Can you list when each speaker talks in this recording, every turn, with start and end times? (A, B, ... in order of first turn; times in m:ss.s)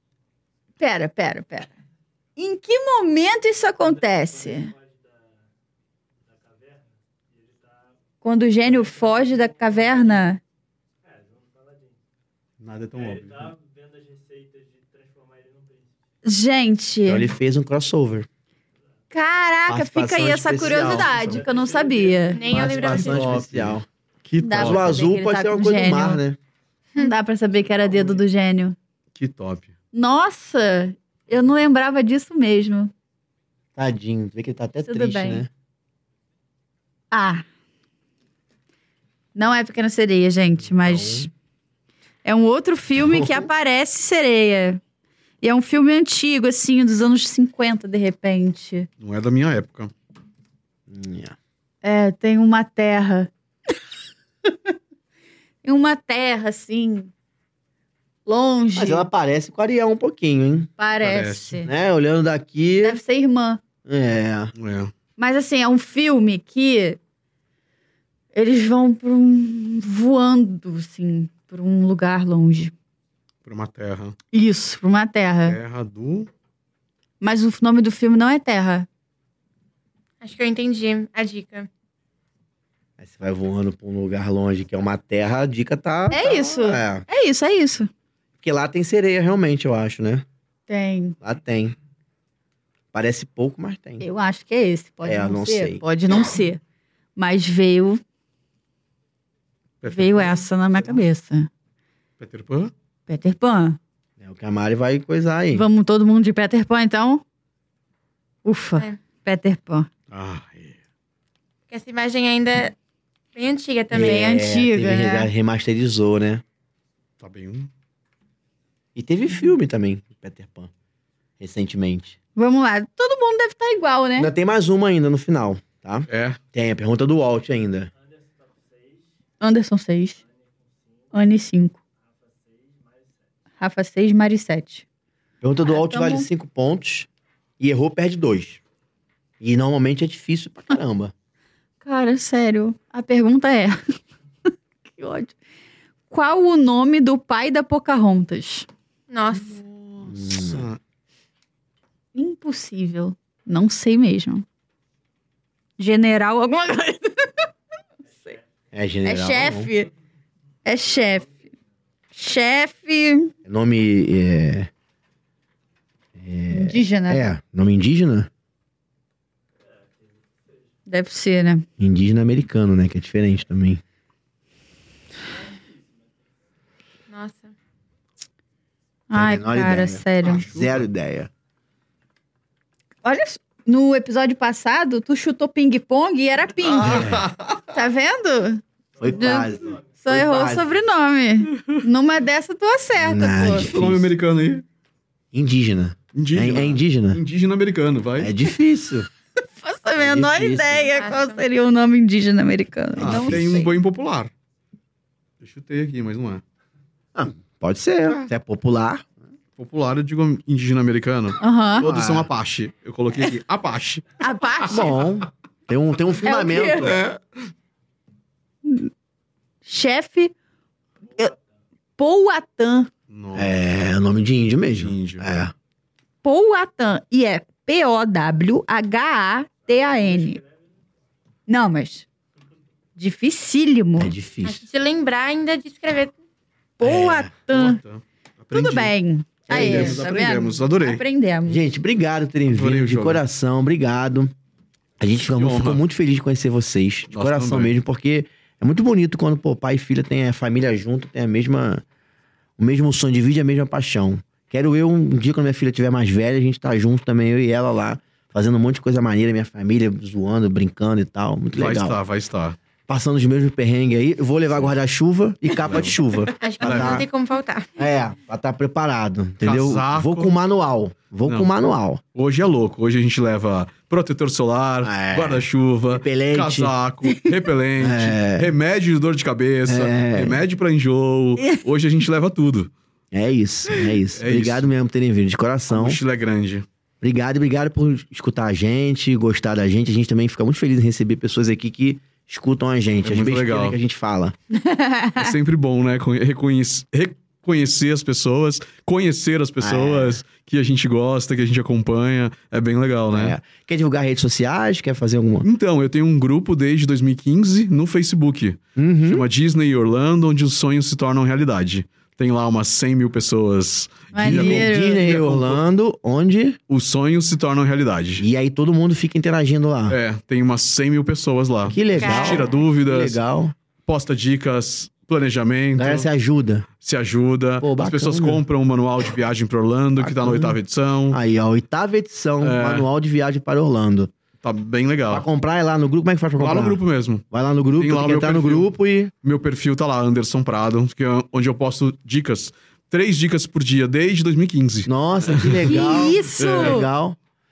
0:00.8-0:01.7 A
0:02.4-0:04.7 A
0:08.2-0:10.4 A
0:12.6-0:13.6 B
0:16.2-0:17.3 A
0:17.1-0:18.3 C
0:19.1-0:22.5 A
0:19.7-0:21.4 C
0:22.3-0:23.3 D
0:22.5-0:23.9 C
0:22.6-0:24.9 B
0:24.4-0:26.2 A
0:24.5-0:26.4 C
0:27.0-0:28.8 A
0:29.1-0:29.7 B
0:29.9-0:32.9 A
0:33.8-0:35.5 C
0:34.8-0:35.5 A
0:37.1-0:37.4 A
0:39.4-0:41.3 A
0:40.8-0:41.3 C
0:42.2-0:44.8 A
0:43.0-0:43.5 C
0:45.4-0:48.9 A
0:49.0-0:49.9 B
0:50.9-0:51.4 C
0:51.8-0:53.3 A
0:55.6-0:57.1 A
0:58.3-0:59.1 A
0:58.8-1:00.7 C
1:00.8-1:01.7 A
1:01.0-1:01.6 B
1:01.6-1:03.0 C
1:02.8-1:03.6 A
1:03.8-1:04.5 C
1:04.6-1:04.9 B
1:05.2-1:07.0 A
1:08.3-1:12.7 A
1:13.4-1:14.2 B
1:14.3-1:15.6 A
1:15.5-1:16.3 B
1:17.2-1:18.9 A
1:20.2-1:21.7 D
1:23.0-1:27.0 C
1:26.1-1:27.9 A
1:28.4-1:30.2 C
1:30.7-1:31.2 A
1:31.2-1:31.8 C
1:32.9-1:34.0 C
1:34.0-1:36.6 A
1:35.0-1:35.8 C
1:37.2-1:38.0 A
1:39.8-1:40.4 B
1:39.9-1:41.5 A
1:42.2-1:42.7 B
1:43.1-1:43.8 A
1:44.2-1:45.7 C
1:45.5-1:47.2 A
1:48.4-1:49.9 A
1:50.1-1:50.8 B
1:51.7-1:52.8 D
1:53.3-1:54.3 D
1:53.9-1:56.4 C
1:54.0-1:55.3 A
1:57.2-1:57.7 B
1:59.0-2:00.7 C
2:01.4-2:02.2 C
2:02.4-2:04.3 A
2:04.2-2:07.9 C
2:06.1-2:06.4 B
2:09.4-2:10.2 A
2:11.1-2:11.8 A
2:13.6-2:14.8 A
2:15.4-2:17.1 C
2:15.7-2:16.3 A
2:17.6-2:18.6 C
2:19.4-2:21.1 C
2:21.8-2:24.0 A
2:25.0-2:25.4 A
2:26.1-2:28.7 A
2:29.1-2:29.6 D
2:29.4-2:30.8 B
2:30.1-2:30.7 C
2:32.2-2:34.4 A
2:35.8-2:37.3 A
2:38.7-2:39.7 C
2:39.0-2:39.9 A
2:40.6-2:41.4 A
2:42.1-2:43.3 A
2:43.4-2:44.7 C
2:46.2-2:48.3 C
2:46.5-2:47.2 A
2:50.9-2:51.7 A
2:51.8-2:53.8 C
2:57.1-2:57.5 D
2:59.1-3:00.4 A
2:59.1-3:01.3 C
3:00.2-3:00.9 B
3:03.0-3:07.1 A
3:06.6-3:07.6 B
3:06.8-3:07.3 C
3:07.7-3:13.7 A
3:09.0-3:10.7 C
3:13.0-3:14.1 C
3:13.7-3:14.6 B
3:15.3-3:17.2 C
3:16.1-3:18.3 B
3:18.2-3:19.1 C
3:19.6-3:23.7 A
3:20.0-3:20.9 C
3:20.9-3:21.4 D
3:23.0-3:24.3 B
3:23.0-3:23.4 C
3:25.4-3:26.4 B
3:27.2-3:29.0 C
3:29.6-3:34.0 B
3:31.4-3:31.8 A
3:31.8-3:32.3 C
3:34.2-3:34.9 A
3:34.7-3:37.0 C
3:36.2-3:36.9 A
3:36.9-3:37.2 B
3:38.6-3:38.9 A
3:39.6-3:40.3 A
3:42.0-3:42.9 A
3:43.1-3:43.6 B
3:43.4-3:45.5 C
3:44.8-3:45.4 B
3:46.2-3:50.4 A
3:51.5-3:52.1 A
3:53.0-3:54.1 A
3:54.0-3:54.7 C
3:54.4-3:56.2 D
3:56.8-3:57.8 A
3:56.8-3:57.3 C
3:57.5-3:58.9 B
3:58.5-4:01.6 A
3:59.5-4:01.0 B
3:59.5-4:00.0 C
4:01.5-4:04.3 C
4:02.5-4:03.2 B
4:05.0-4:11.8 C
4:05.3-4:05.8 B
4:07.1-4:07.7 B
4:12.6-4:22.0 C
4:21.6-4:22.6 B
4:22.9-4:27.1 C
4:25.6-4:26.0 B
4:26.4-4:27.7 D
4:26.6-4:27.0 B
4:27.8-4:32.0 C
4:29.4-4:30.3 B
4:32.1-4:42.7 B
4:34.8-4:36.7 C
4:37.8-4:38.5 C
4:39.7-4:40.4 C
4:43.1-4:46.0 C
4:44.1-4:44.7 B
4:45.7-4:46.7 B
4:47.0-4:54.4 C
4:53.0-4:53.8 B
4:54.5-4:55.3 A
4:55.2-5:03.4 B
4:59.6-5:00.2 C
5:03.1-5:05.5 C
5:05.4-5:15.6 B
5:08.8-5:09.3 C
5:14.1-5:15.0 A
5:14.2-5:16.6 C
5:16.7-5:18.2 B
5:18.2-5:20.0 C
5:19.9-5:23.2 B
5:21.7-5:23.6 C
5:22.0-5:22.6 D
5:23.8-5:26.1 B
5:25.8-5:26.7 C
5:26.8-5:31.2 B
5:27.6-5:28.4 C
5:30.0-5:34.1 C
5:32.4-5:32.9 B
5:34.4-5:35.2 B
5:35.1-5:39.1 C
5:36.4-5:37.2 B
5:37.8-5:38.7 B
5:39.2-5:46.9 B
5:44.9-5:47.2 C
5:45.7-5:46.9 A